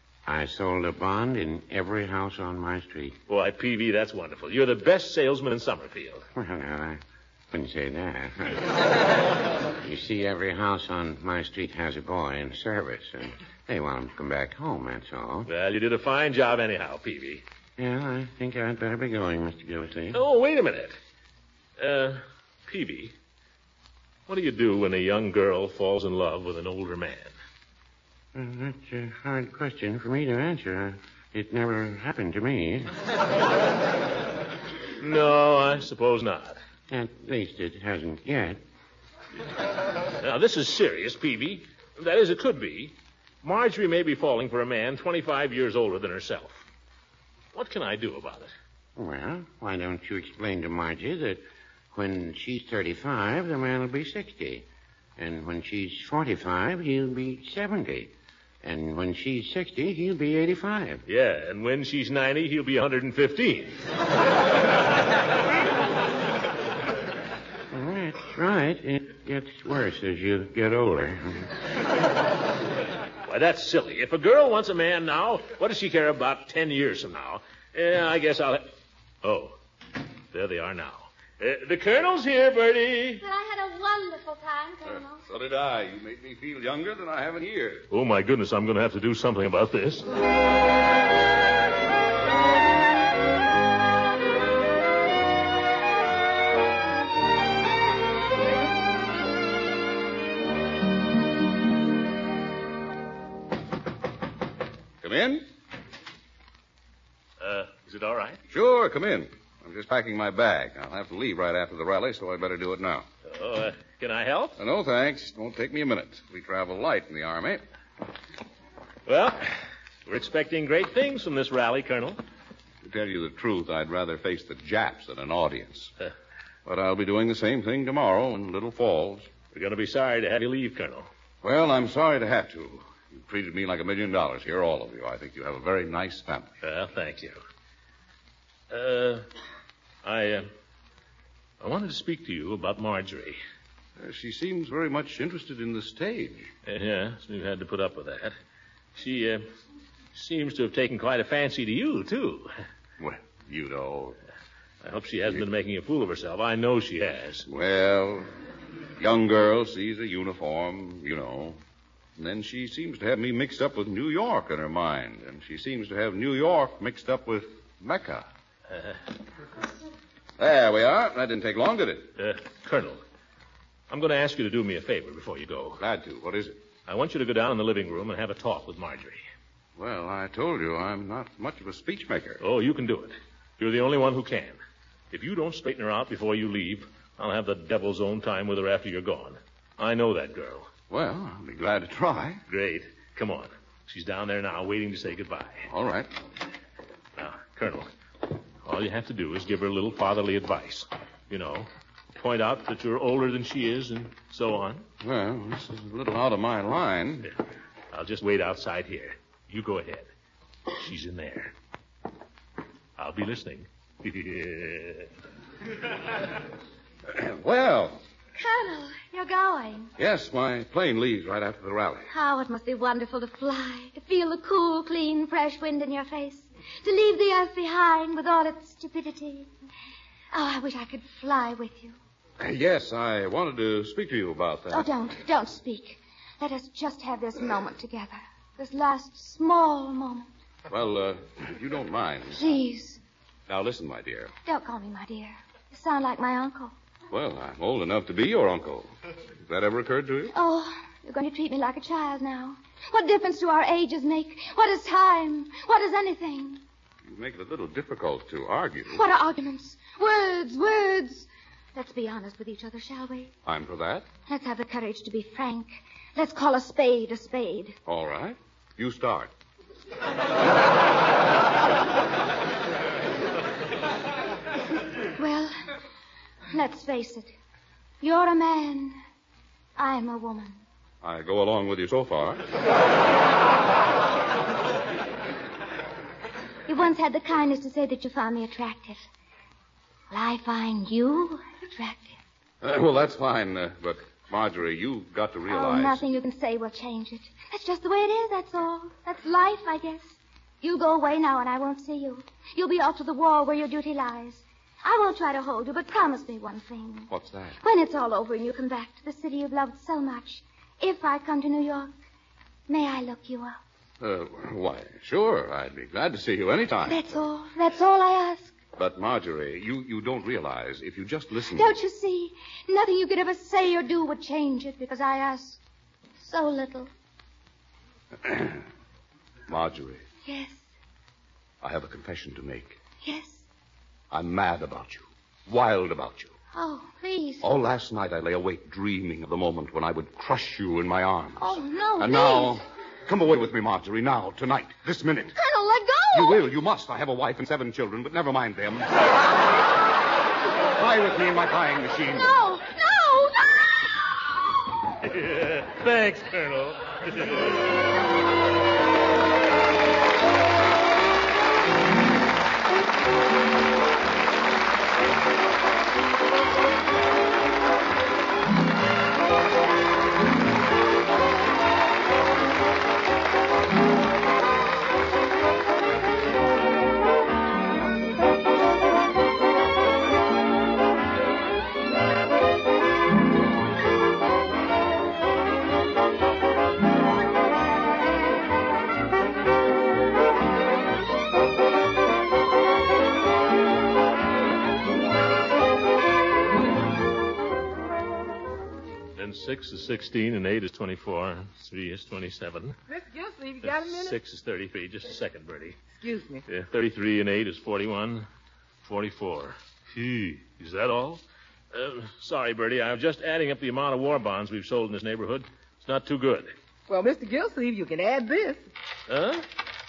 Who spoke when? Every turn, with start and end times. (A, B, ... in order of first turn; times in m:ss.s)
0:00.3-0:03.2 A
0:03.3-0:06.2 B
0:06.3-0:07.0 A
0:07.5-0:08.7 A
0:09.8-0:15.5 A
0:15.5-0:17.4 B
0:17.8-0:20.2 A
0:20.1-0:21.0 B
0:21.8-0:23.1 B
0:24.3-0:27.3 B
0:28.3-0:32.9 A
0:35.0-0:36.6 B
0:36.9-0:38.6 A
0:40.2-0:46.6 B
0:47.5-0:48.5 B
0:49.0-0:54.7 A
0:55.2-0:58.1 A
0:58.6-1:01.0 A
1:01.1-1:03.7 B
1:07.7-1:11.5 A
1:13.2-1:18.7 B
1:19.2-1:19.6 B
1:20.3-1:23.3 B
1:23.2-1:25.2 C
1:24.8-1:27.9 D
1:27.9-1:30.1 B
1:45.0-1:45.5 D
1:47.4-1:48.4 B
1:48.5-1:53.0 D
1:53.3-1:54.6 B
1:54.6-1:57.6 D
1:59.1-1:59.5 B
2:00.1-2:02.2 B
2:02.8-2:05.9 D
2:06.7-2:09.3 D
2:09.5-2:11.1 B
2:11.4-2:16.5 D
2:16.6-2:17.4 B
2:18.7-2:19.3 B
2:20.0-2:20.5 B
2:21.6-2:23.4 B
2:24.0-2:26.5 D
2:26.7-2:28.4 B
2:29.0-2:29.5 B
2:30.1-2:32.5 B
2:33.0-2:34.2 D
2:34.8-2:37.5 B
2:37.5-2:38.3 D
2:39.0-2:41.6 D
2:42.2-2:48.3 D
2:50.4-2:52.1 D
2:52.2-2:53.0 B
2:53.9-2:55.8 B
2:55.8-2:56.6 D
2:56.9-2:59.2 B
2:59.8-3:02.4 D
3:02.4-3:04.6 B
3:05.1-3:10.7 B
3:10.9-3:12.4 D
3:12.5-3:15.7 B
3:15.7-3:16.1 D
3:17.2-3:17.9 B
3:18.6-3:24.8 B
3:25.0-3:27.3 D
3:27.9-3:30.1 B
3:30.7-3:31.5 B
3:33.0-3:35.1 B
3:37.1-3:38.0 D
3:38.4-3:39.9 C
3:40.0-3:42.1 D
3:42.1-3:49.5 C
3:50.3-3:52.0 C
3:52.4-3:54.9 D
3:54.7-4:00.3 C
4:00.7-4:02.4 D
4:02.4-4:03.0 C
4:03.5-4:04.3 D
4:04.5-4:06.7 C
4:07.1-4:08.9 D
4:09.5-4:10.3 D
4:10.3-4:16.6 C
4:17.1-4:19.0 D
4:18.9-4:23.3 C
4:23.4-4:24.1 D
4:24.3-4:27.8 C
4:27.9-4:29.3 D
4:34.9-4:35.6 C
4:36.5-4:37.3 C
4:38.0-4:39.0 C
4:39.8-4:40.6 C
4:41.0-4:42.4 D
4:46.7-4:49.0 C
4:50.1-4:52.1 C
4:52.6-4:56.0 D
4:55.5-5:07.1 C
5:07.1-5:07.6 D
5:07.6-5:11.9 C
5:12.7-5:13.6 C
5:14.0-5:17.2 D
5:16.9-5:18.6 C
5:18.8-5:21.8 D
5:21.5-5:25.6 C
5:26.2-5:26.9 C
5:28.2-5:28.6 D
5:29.5-5:30.0 D
5:30.2-5:30.6 C
5:31.6-5:32.8 D
5:33.0-5:33.4 C
5:34.1-5:36.3 D
5:36.5-5:37.4 C
5:37.4-5:45.4 D
5:41.4-5:42.6 C
5:45.4-5:46.4 C
5:46.1-5:48.9 D
5:50.7-5:52.4 D
5:52.2-5:53.9 C
5:55.0-5:57.6 B
6:39.2-6:42.8 B
6:42.9-6:44.2 E
6:43.6-6:45.8 B
6:45.9-6:46.4 E
6:46.5-6:48.3 B
6:48.8-6:56.5 B
6:56.9-6:58.6 E
6:59.1-6:59.4 B